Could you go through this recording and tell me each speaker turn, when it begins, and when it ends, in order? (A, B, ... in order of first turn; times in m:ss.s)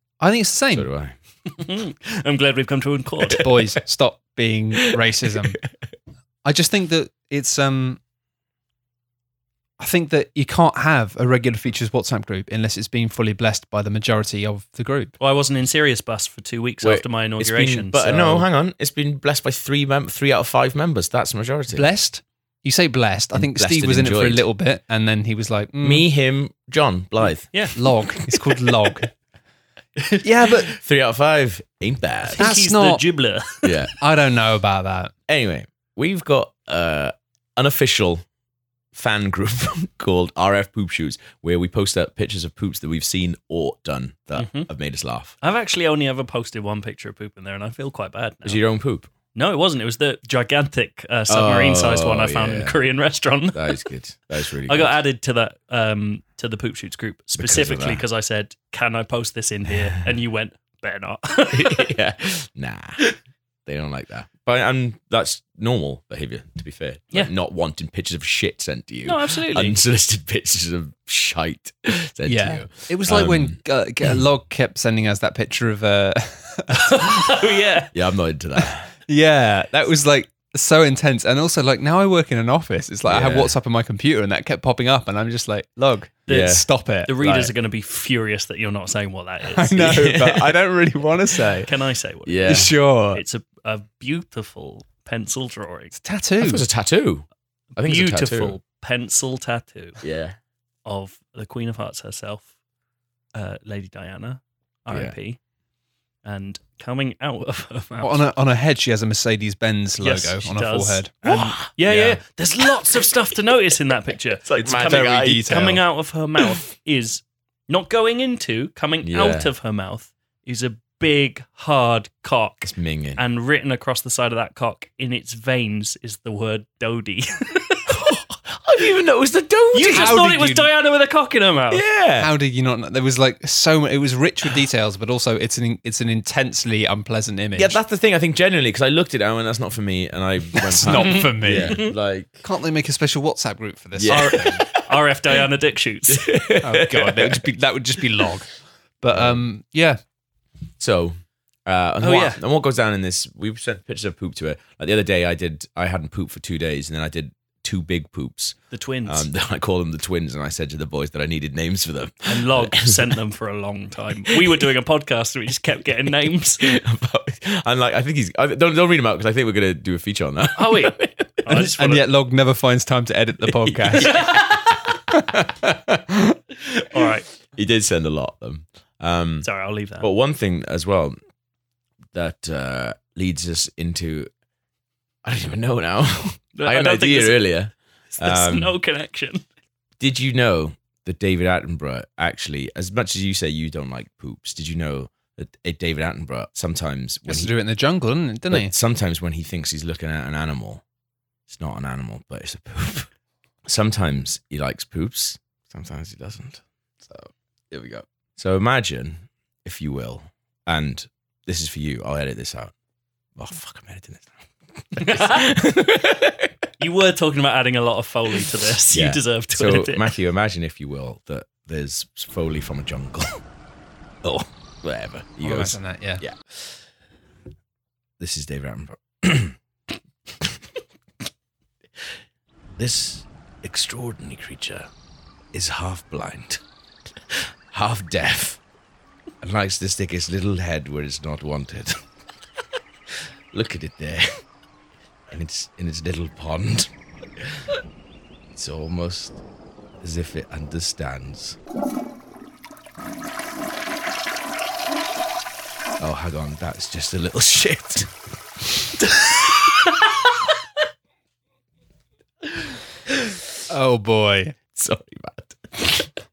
0:00.2-0:00.9 A
0:00.7-0:01.1 B
0:01.5-0:03.5 C
0:03.4-0:05.6 A
0:06.4-0:08.0 A
0:09.8-0:15.1 A
0:15.2-0:18.4 C
0:16.8-0:21.8 B
0:21.7-0:26.0 A
0:23.3-0:24.4 B
0:25.8-0:27.6 B
0:27.5-0:27.8 C
0:27.8-0:29.1 A
0:30.2-0:30.7 A
0:30.7-0:32.5 B
0:32.3-0:33.9 C
0:32.4-0:33.0 A
0:33.6-0:33.9 B
0:34.0-0:35.1 A
0:35.3-0:38.2 B
0:38.9-0:45.3 B
0:44.4-0:44.7 C
0:45.4-0:48.6 C
0:48.4-0:49.1 B
0:49.3-0:53.9 C
0:51.3-0:52.8 B
0:53.5-0:55.0 B
0:54.6-1:02.0 C
0:57.3-0:58.0 B
0:59.7-1:00.1 B
1:01.5-1:03.0 B
1:03.6-1:14.2 B
1:09.0-1:09.8 C
1:12.2-1:17.2 A
1:16.8-1:17.9 C
1:17.9-1:18.9 B
1:19.1-1:27.5 A
1:23.0-1:23.5 B
1:26.3-1:26.6 B
1:26.3-1:29.9 C
1:29.5-1:31.7 A
1:29.8-1:30.6 B
1:31.7-1:35.9 C
1:32.2-1:32.8 B
1:32.5-1:33.2 A
1:35.9-1:36.6 A
1:36.4-1:38.6 B
1:37.8-1:40.0 C
1:40.0-1:40.4 B
1:40.8-1:42.5 C
1:43.3-1:45.4 C
1:44.9-1:45.1 B
1:46.2-1:48.2 C
1:48.0-1:52.2 A
1:50.0-2:08.0 C
1:51.2-1:51.7 B
1:54.4-1:55.7 B
1:54.8-1:55.8 A
1:59.0-1:59.5 B
2:02.6-2:03.2 B
2:07.9-2:10.2 B
2:09.7-2:11.8 C
2:09.9-2:10.7 A
2:11.7-2:12.3 B
2:12.2-2:17.8 A
2:17.5-2:22.4 B
2:20.5-2:21.8 A
2:20.9-2:21.9 C
2:22.4-2:24.5 A
2:24.0-2:24.8 B
2:24.1-2:26.3 C
2:26.1-2:27.5 B
2:26.6-2:28.5 A
2:29.0-2:30.0 A
2:29.1-2:29.4 B
2:30.8-2:43.1 B
2:32.0-2:32.4 C
2:38.7-2:39.3 C
2:42.2-2:46.8 C
2:44.3-2:44.6 B
2:46.6-2:51.3 B
2:50.6-2:52.1 C
2:51.5-2:54.2 A
2:53.7-2:54.7 B
2:53.9-2:54.8 C
2:56.8-2:57.3 C
2:57.5-3:01.2 B
2:59.4-3:00.1 C
3:02.1-3:04.3 B
3:05.2-3:08.7 B
3:06.5-3:07.4 C
3:08.2-3:09.4 C
3:10.0-3:17.5 B
3:17.2-3:18.7 A
3:18.5-3:20.8 B
3:21.5-3:23.1 B
3:23.6-3:32.7 B
3:33.4-3:36.7 B
3:35.0-3:35.5 C
3:36.8-3:40.1 C
3:38.9-3:43.4 B
3:44.2-3:46.6 B
3:45.4-3:46.2 A
3:48.2-3:49.6 B
3:52.8-3:54.9 B
3:55.5-3:56.6 B
3:57.2-3:58.6 B
3:59.4-4:02.0 B
4:03.1-4:04.3 B
4:05.3-4:07.7 B
4:08.5-4:09.4 B
4:10.0-4:11.6 B
4:16.0-4:18.1 B
4:19.0-4:20.1 C
4:23.7-4:24.6 A
4:24.7-4:26.1 B